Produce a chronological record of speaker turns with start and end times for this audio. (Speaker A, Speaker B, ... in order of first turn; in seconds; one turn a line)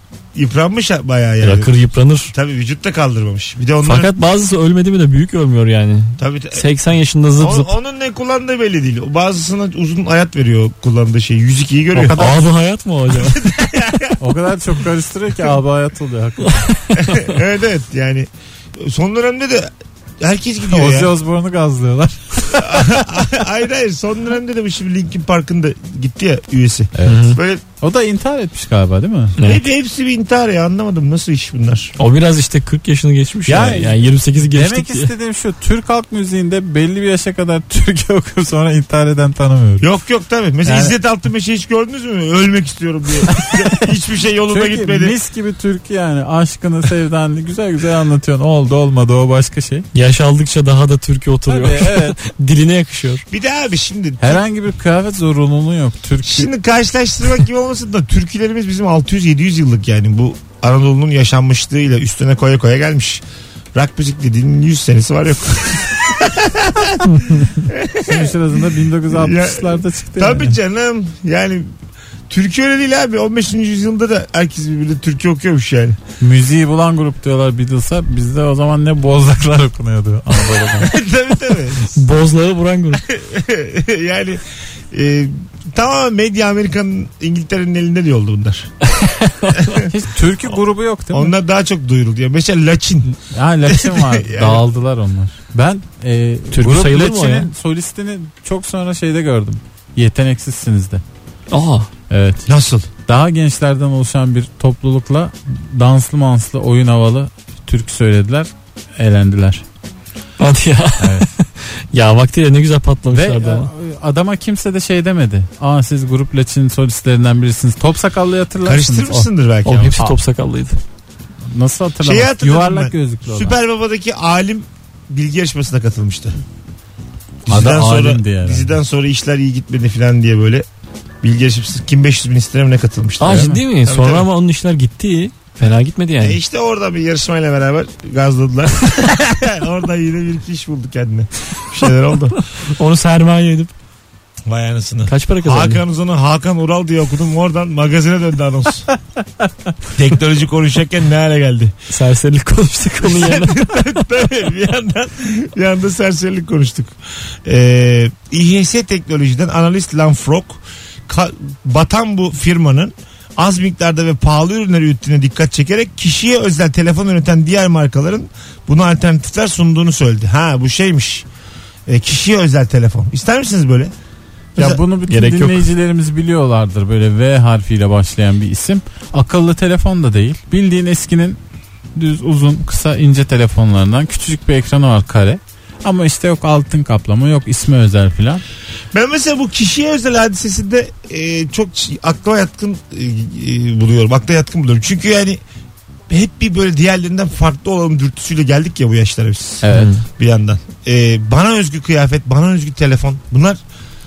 Speaker A: 0.4-1.7
Speaker B: 1.4-2.3
Speaker A: 2.3-4.1
Speaker B: 3.8-7.7
Speaker A: 6.2-6.7
Speaker A: 7.4-12.3
Speaker B: 12.0-13.4
Speaker A: 13.2-14.2
Speaker C: 14.2-16.7
Speaker B: 16.4-17.4
Speaker A: 17.0-21.1
Speaker C: 20.7-23.0
Speaker A: 22.6-27.6
Speaker C: 27.0-29.4
Speaker B: 27.1-27.4
Speaker B: 29.4-29.6
Speaker A: 29.4-31.9
Speaker B: 32.0-35.1
Speaker C: 33.5-39.9
Speaker A: 39.8-45.2
Speaker C: 40.6-41.0
Speaker C: 43.3-43.7
Speaker C: 44.5-49.9
Speaker B: 49.9-53.2
Speaker C: 51.5-52.2
Speaker A: 53.3-54.4
Speaker C: 54.2-56.5
Speaker A: 56.2-63.2
Speaker A: 63.7-67.1
Speaker B: 67.1-67.4
Speaker A: 67.7-68.4
Speaker C: 68.0-70.6
Speaker A: 69.1-71.7
Speaker A: 72.3-76.0
Speaker C: 76.2-80.9
Speaker A: 80.8-82.0
Speaker B: 81.9-83.0
Speaker A: 83.1-88.7
Speaker B: 88.9-89.8
Speaker A: 89.6-89.9
Speaker C: 89.8-91.3
Speaker A: 91.1-94.7
Speaker C: 93.3-101.0
Speaker B: 96.5-97.5
Speaker B: 101.5-101.9
Speaker C: 102.1-102.5
Speaker A: 102.5-102.9
Speaker C: 103.1-109.6
Speaker B: 110.4-113.7
Speaker C: 111.0-111.3
Speaker C: 113.1-119.3
Speaker A: 118.6-120.0
Speaker B: 119.7-120.8
Speaker C: 121.5-123.6
Speaker A: 122.0-126.4
Speaker A: 127.5-130.7
Speaker C: 127.5-128.8
Speaker A: 131.2-134.3
Speaker B: 133.2-136.4
Speaker C: 133.2-133.6
Speaker A: 136.2-142.4
Speaker B: 142.7-143.7
Speaker A: 144.5-148.9
Speaker B: 145.1-145.8
Speaker A: 149.9-151.7
Speaker B: 151.9-153.7
Speaker A: 153.0-171.3
Speaker A: 171.9-173.9
Speaker C: 174.6-181.4
Speaker B: 175.1-175.7
Speaker C: 181.9-188.4
Speaker A: 188.9-195.4
Speaker A: 196.1-203.6
Speaker C: 199.6-199.9
Speaker B: 199.7-200.0